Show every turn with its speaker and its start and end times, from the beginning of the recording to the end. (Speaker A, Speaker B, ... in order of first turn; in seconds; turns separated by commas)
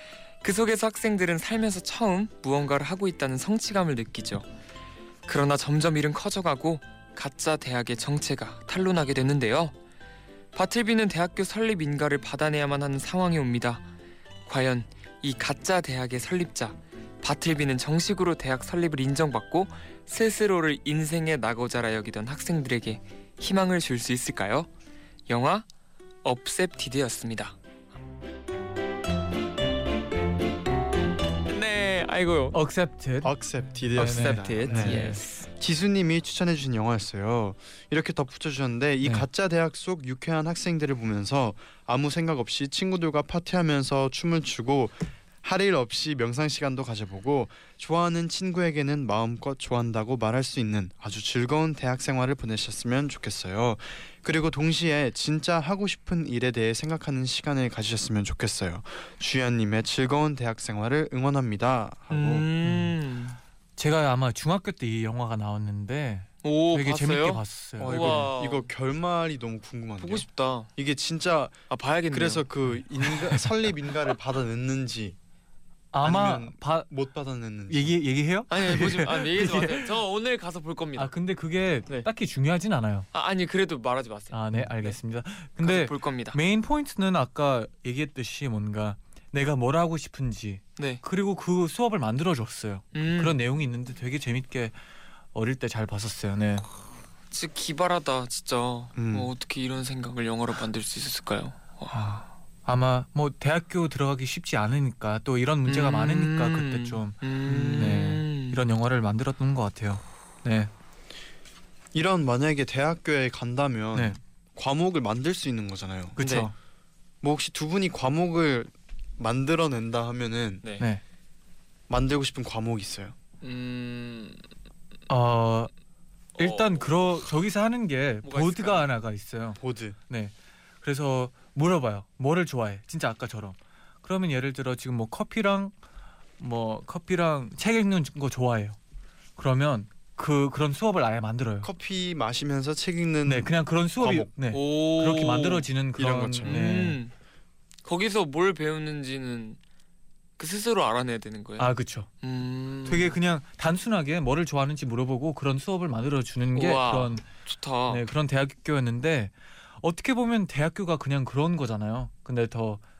Speaker A: 0.4-4.5, Speaker A: 5.3-9.8, Speaker A: 10.5-13.8, Speaker A: 14.5-24.7, Speaker A: 25.3-25.7, Speaker A: 26.2-27.6, Speaker A: 31.5-32.6, Speaker B: 32.5-33.3, Speaker C: 33.2-62.5, Speaker B: 34.0-35.2, Speaker A: 34.0-35.4, Speaker A: 62.1-63.4, Speaker B: 62.6-63.0, Speaker B: 63.8-68.3, Speaker A: 66.4-68.7, Speaker C: 67.8-75.2, Speaker A: 70.0-70.7, Speaker A: 71.7-72.5, Speaker B: 75.9-76.9, Speaker C: 76.0-78.0, Speaker B: 77.7-79.9, Speaker A: 78.5-81.1, Speaker B: 81.0-83.1, Speaker A: 83.1-85.0, Speaker B: 84.3-94.8, Speaker A: 85.6-86.4, Speaker A: 90.8-91.0, Speaker A: 92.9-93.4, Speaker B: 95.3-96.7, Speaker A: 97.3-102.2, Speaker C: 99.0-99.3, Speaker B: 101.9-107.2, Speaker A: 105.7-108.6, Speaker C: 107.5-107.9, Speaker B: 107.7-110.7, Speaker C: 111.9-116.2, Speaker B: 116.2-116.5, Speaker A: 116.2-116.5, Speaker C: 117.2-120.6, Speaker A: 120.6-120.9, Speaker C: 121.9-123.2, Speaker A: 123.4-124.4, Speaker B: 125.1-125.7, Speaker B: 126.4-135.7, Speaker A: 126.4-126.9, Speaker A: 128.2-128.9, Speaker C: 129.6-130.0, Speaker B: 136.4-138.8, Speaker B: 139.4-141.7, Speaker C: 141.6-144.3, Speaker B: 143.3-147.0, Speaker A: 144.5-145.7, Speaker C: 146.0-146.6, Speaker A: 146.4-147.1, Speaker A: 147.8-149.6, Speaker A: 150.4-151.7, Speaker B: 151.6-152.1, Speaker A: 152.2-153.2, Speaker B: 152.8-157.2, Speaker A: 156.5-158.1, Speaker B: 157.9-162.8